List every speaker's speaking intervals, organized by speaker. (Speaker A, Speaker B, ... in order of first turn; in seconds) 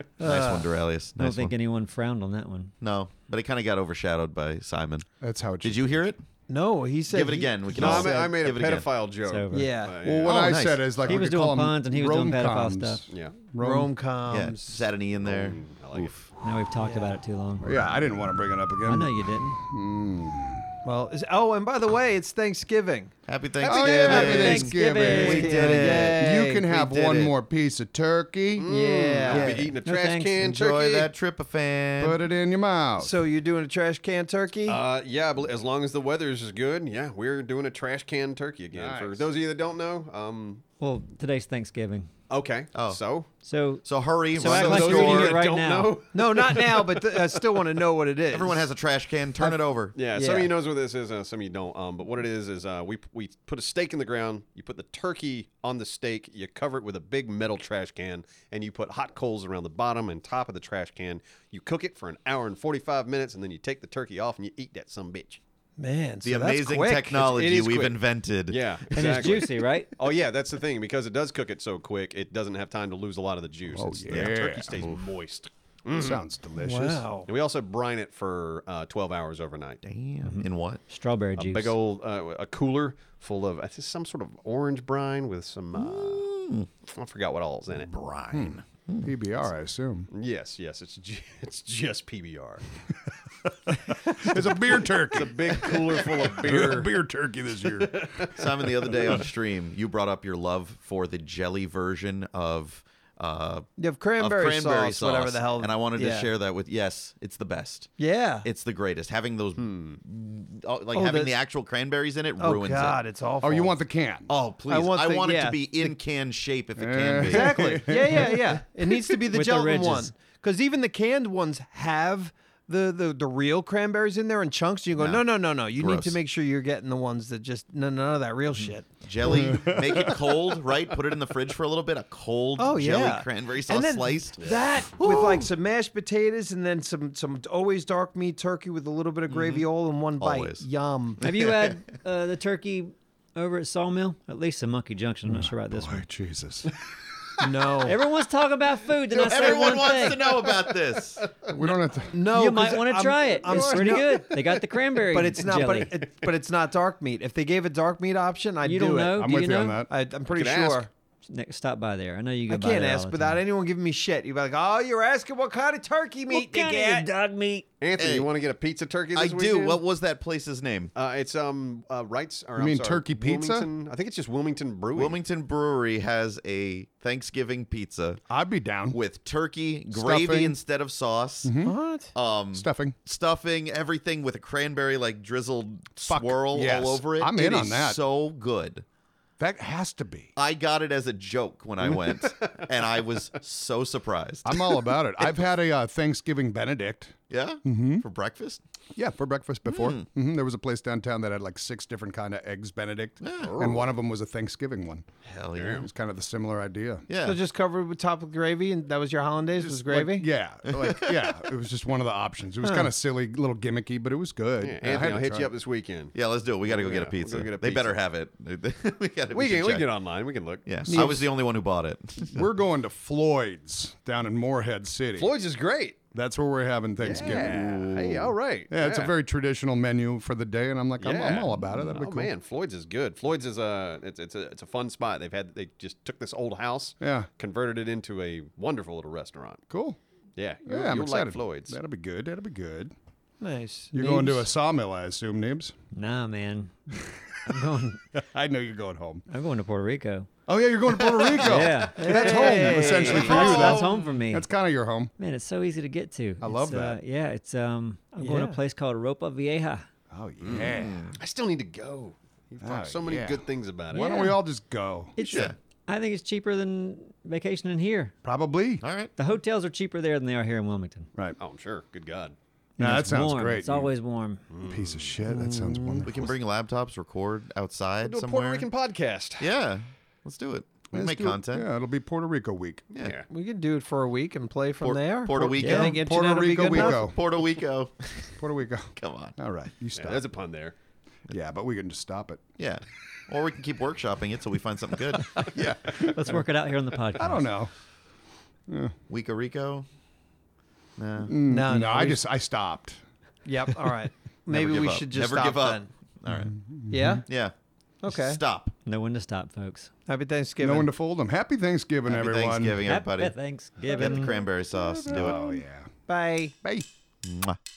Speaker A: 0.2-0.7, 6.5-8.3, 9.5-9.9, 13.6-14.8, 16.8-17.2, 20.8-26.7, 28.7-29.7, 33.0-34.8, 46.1-48.7, 50.1-50.5, 65.8-67.8, 76.6-77.3, 103.8-106.3, 108.0-108.5, 110.9-111.4, 112.4-113.8, 114.7-115.9, 117.2-129.5, 132.6-141.2, 147.4-148.0, 152.1-154.3, 155.1-159.2, 159.9-160.9, 162.5-167.1, 181.6-182.1, 207.2-210.3, 212.6-212.9, 220.9-221.2, 243.4-244.5, 252.0-252.9, 258.2-258.6, 275.2-276.1, 283.3-287.1, 301.5-302.2, 303.4-305.9, 306.9-307.2, 308.0-308.4, 310.1-310.9, 316.1-316.6
Speaker B: 0.2-1.5, 2.8-5.1, 5.6-6.2, 7.1-8.9, 10.3-10.9, 14.3-16.1, 23.3-27.3, 29.3-29.8, 30.4-32.2, 42.7-43.0, 43.8-45.4, 48.3-50.0, 66.2-69.4, 79.8-80.8, 85.7-86.7, 87.8-89.1, 98.3-113.0, 114.3-117.8, 125.0-126.2, 129.0-135.5, 139.3-139.7, 140.2-140.7, 141.2-141.8, 149.1-151.3, 168.0-168.3, 169.2-170.9, 174.9-178.2, 178.9-181.6, 182.1-188.8, 190.4-194.9, 197.3-198.6, 199.7-200.1, 203.2-203.8, 205.2-205.9, 207.1-207.4, 210.7-211.4, 216.1-219.9, 220.7-222.5, 227.1-227.8, 251.0-251.7, 253.1-254.1, 260.5-261.2, 265.3-265.6, 268.8-269.1, 276.0-278.7, 279.4-281.7, 284.8-286.0, 286.6-288.4, 289.0-289.4, 292.6-295.8, 299.1-299.9, 301.0-301.3, 304.5-306.6, 307.2-307.5, 308.1-308.7, 312.1-315.4, 317.2-317.6
Speaker C: 1.2-2.8, 9.2-9.7, 11.0-13.0, 16.4-17.8, 18.8-19.6, 24.1-26.0, 29.9-30.4, 40.8-42.1, 43.4-46.0, 68.9-69.9, 80.2-81.8, 119.3-120.1, 141.2-146.1, 147.8-150.2, 152.3-156.0, 158.6-159.8, 161.3-163.4, 166.3-167.7, 245.9-248.0, 249.3-250.3, 251.4-254.5, 255.2-259.9, 265.2-268.1, 269.2-271.1, 272.8-274.4, 285.6-285.9, 295.9-297.5, 308.9-309.9, 312.8-314.4
Speaker D: 5.2-6.0, 10.0-13.9, 17.6-20.7, 23.6-28.7, 32.0-33.2, 38.7-39.3, 73.7-75.0, 76.0-77.1, 88.3-90.1, 93.7-99.2, 113.4-114.3, 116.8-118.6, 129.2-130.2, 145.3-146.7, 151.4-152.2, 153.5-154.5, 159.1-159.9, 172.6-173.7, 178.3-179.0, 179.9-180.6, 181.4-181.8, 182.5-183.0, 186.1-188.0, 189.4-190.3, 194.4-198.1, 199.0-205.1, 205.7-207.1, 209.6-215.5, 220.8-221.2, 222.3-225.3, 226.1-232.3, 237.0-237.3, 239.7-240.0, 240.7-242.9, 243.9-245.8, 248.1-249.2, 250.5-255.1, 256.4-257.0, 260.1-261.1, 262.6-265.5, 268.2-268.8, 272.8-273.9, 274.7-276.3, 280.9-282.9, 285.6-287.5, 288.4-290.2, 291.3-292.4, 295.5-296.4, 297.2-297.7, 298.7-298.9, 301.2-303.0, 306.3-307.2, 310.6-312.9, 314.8-315.9
Speaker E: 7.7-10.6, 13.1-13.3, 15.2-16.2, 28.6-31.1, 34.7-40.6, 42.3-43.3, 44.4-47.4, 49.9-65.4, 67.3-67.9, 68.5-76.2, 77.2-79.8, 81.4-86.3, 86.9-88.0, 90.1-92.6, 94.1-97.0, 97.7-98.4, 109.6-110.0, 129.8-130.2, 160.3-160.9, 167.8-169.8, 170.9-175.2, 191.9-192.7, 203.4-203.8, 205.6-205.9, 214.6-218.0, 219.3-220.8, 225.2-226.0, 227.0-229.1, 231.0-239.6, 240.4-241.8, 253.0-253.5, 260.4-264.2, 271.4-272.4, 274.5-275.1, 278.0-279.5, 282.9-283.3, 290.0-290.8